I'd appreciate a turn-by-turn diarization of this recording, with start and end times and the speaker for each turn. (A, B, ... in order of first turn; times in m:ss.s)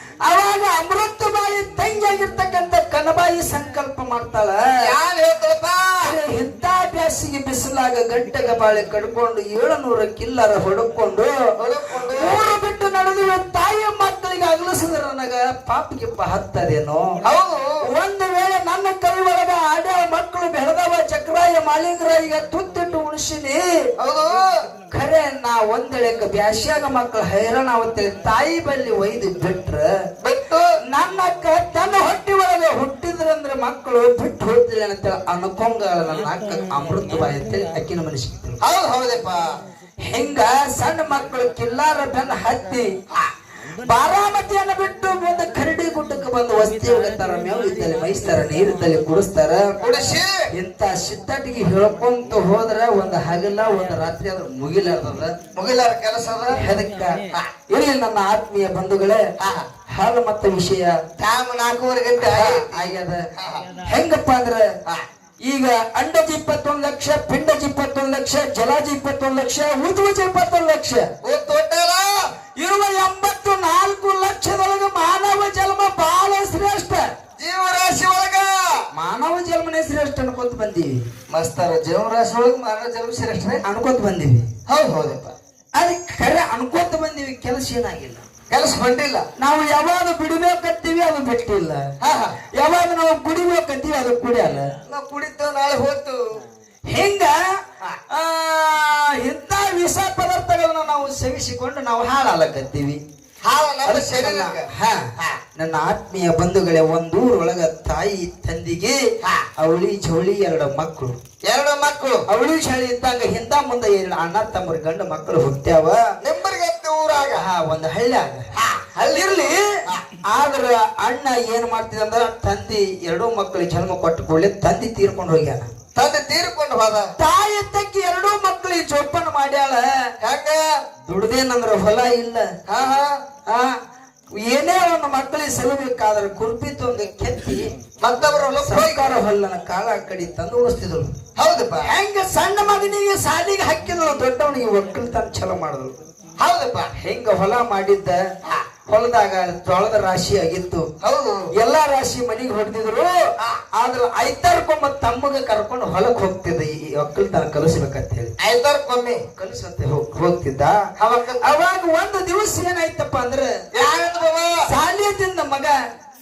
0:00.2-0:04.6 A
0:04.8-0:06.1 B
0:06.0-0:11.3 A
0:11.6-0:12.4 B
0:12.1-0:17.2 A
0:17.2-0:17.8 B
0:17.8-0:23.6 A
0:24.0-0:24.5 B
0:24.9-0:29.9 A
0:30.2-0:30.6 B
0:30.9-0:38.6 A
0:38.6-0:39.4 B
0:40.0-0:42.9 A
0:43.8-0:49.6 A
0:49.8-0:50.4 B
0:50.5-0:55.3 A
0:55.5-0:56.6 B
0:56.5-0:59.2 A
0:59.4-0:59.7 B
0:59.9-1:01.0 A
1:01.2-1:03.6 B
1:02.2-1:03.2 A
1:03.8-1:04.6 A
1:05.4-1:11.1 A
1:11.2-1:12.1 B
1:12.6-1:17.0 A
1:17.4-1:18.7 B
1:18.9-1:21.0 A
1:21.3-1:23.6 B
1:23.6-1:24.4 A
1:24.7-1:25.3 B
1:25.8-1:28.2 A
1:28.5-1:29.3 B
1:29.4-1:31.8 A
1:32.0-1:32.4 B
1:32.5-1:34.7 A
1:34.8-1:36.2 B
1:36.9-1:37.3 A
1:38.1-1:43.0 A
1:43.4-1:45.4 B
1:43.8-1:49.0 A
1:49.6-1:51.2 A
1:51.4-1:52.2 B
1:52.3-1:56.0 A
1:56.2-1:57.4 B
1:57.3-1:58.4 A
1:58.6-2:00.0 B
1:59.0-1:59.7 A
2:00.3-2:05.7 A
2:05.9-2:07.1 B
2:07.2-2:09.8 A
2:10.2-2:10.6 B
2:11.0-2:12.4 A
2:12.7-2:13.2 B
2:13.5-2:13.7 A
2:14.4-2:17.7 A
2:18.0-2:19.2 B
2:18.6-2:21.1 A
2:21.4-2:21.9 B
2:21.8-2:25.9 A
2:26.4-2:26.9 B
2:27.0-2:28.2 A
2:28.9-2:30.9 A
2:31.0-2:31.5 B
2:31.6-2:33.1 A
2:33.8-2:38.3 A
2:38.4-2:39.2 B
2:39.4-2:40.8 A
2:41.0-2:41.5 B
2:41.4-2:43.5 A
2:43.7-2:44.6 B
2:44.6-2:45.7 A